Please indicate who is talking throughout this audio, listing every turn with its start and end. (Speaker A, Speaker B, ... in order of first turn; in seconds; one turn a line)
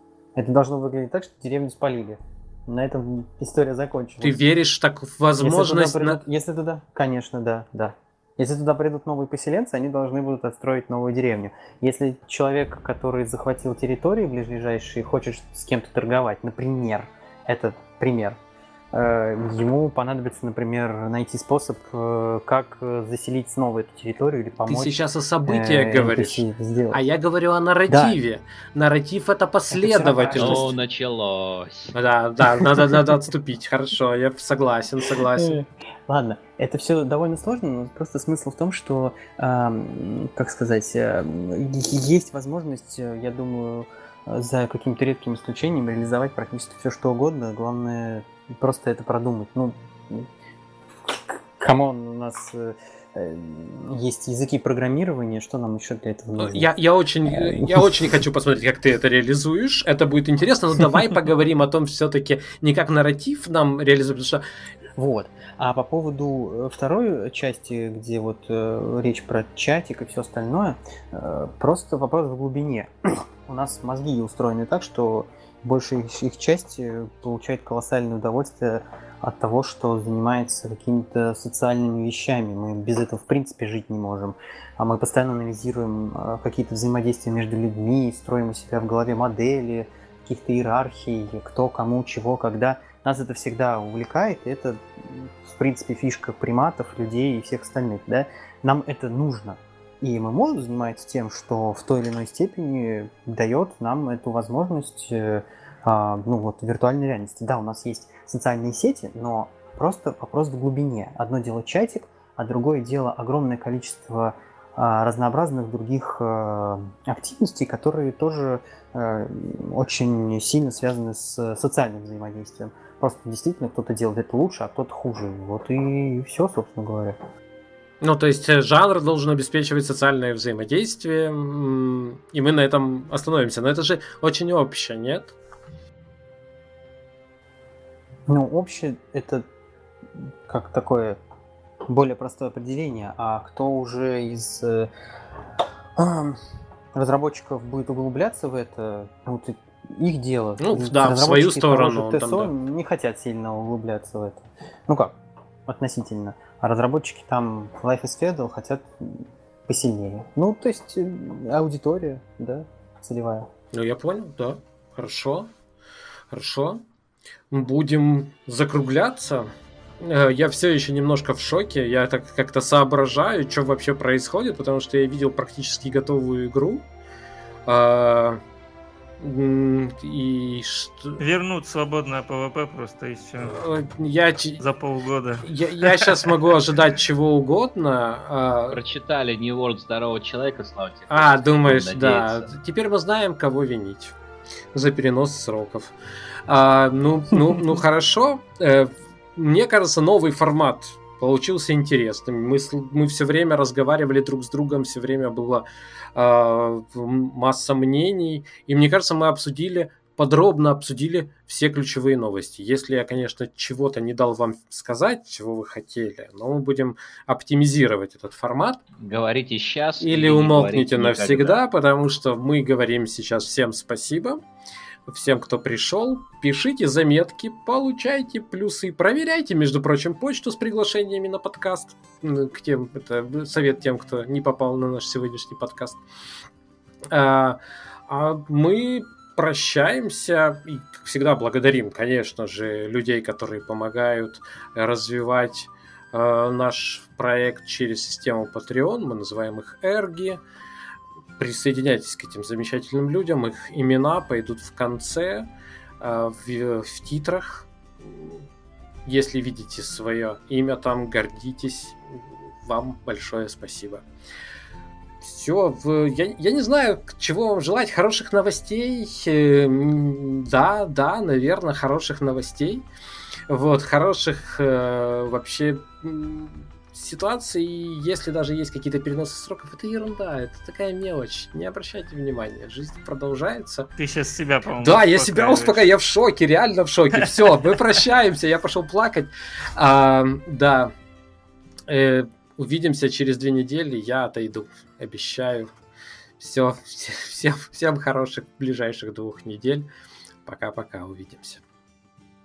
Speaker A: 0.3-4.4
Speaker B: 4.2-6.2
Speaker A: 5.4-18.4
Speaker A: 18.9-27.0
Speaker B: 24.6-30.7
Speaker A: 27.9-28.2
Speaker A: 29.7-30.7
Speaker C: 30.3-31.9
Speaker B: 31.9-35.6
Speaker A: 35.2-50.3
Speaker A: 51.0-56.7
Speaker B: 56.4-64.4
Speaker A: 57.2-58.2
Speaker A: 65.0-127.2
Speaker B: 128.0-135.3
Speaker A: 138.3-139.4
Speaker A: 140.2-141.2
Speaker A: 141.8-144.9
Speaker A: 145.9-146.4
Speaker A: 146.9-155.2
Speaker B: 150.6-152.5
Speaker A: 155.7-163.5
Speaker B: 163.7-165.5
Speaker B: 166.3-166.8
Speaker B: 167.5-176.8
Speaker B: 177.7-178.4
Speaker B: 179.2-181.2
Speaker D: 181.2-183.7
Speaker B: 183.4-184.6
Speaker D: 184.6-186.5
Speaker B: 185.4-188.8
Speaker C: 188.7-192.5
Speaker B: 191.1-194.1
Speaker B: 194.7-195.9
Speaker B: 196.5-218.8
Speaker C: 219.0-221.6
Speaker B: 220.0-224.4
Speaker B: 225.1-236.0
Speaker B: 237.1-250.4
Speaker B: 251.4-255.5
Speaker B: 256.0-258.4
Speaker B: 259.1-264.0
Speaker B: 265.2-272.8
Speaker B: 273.5-283.9
Speaker D: 284.0-285.8
Speaker B: 284.8-290.9
Speaker D: 287.1-287.6
Speaker B: 291.9-295.7
Speaker B: 296.4-299.9
Speaker B: 300.4-301.6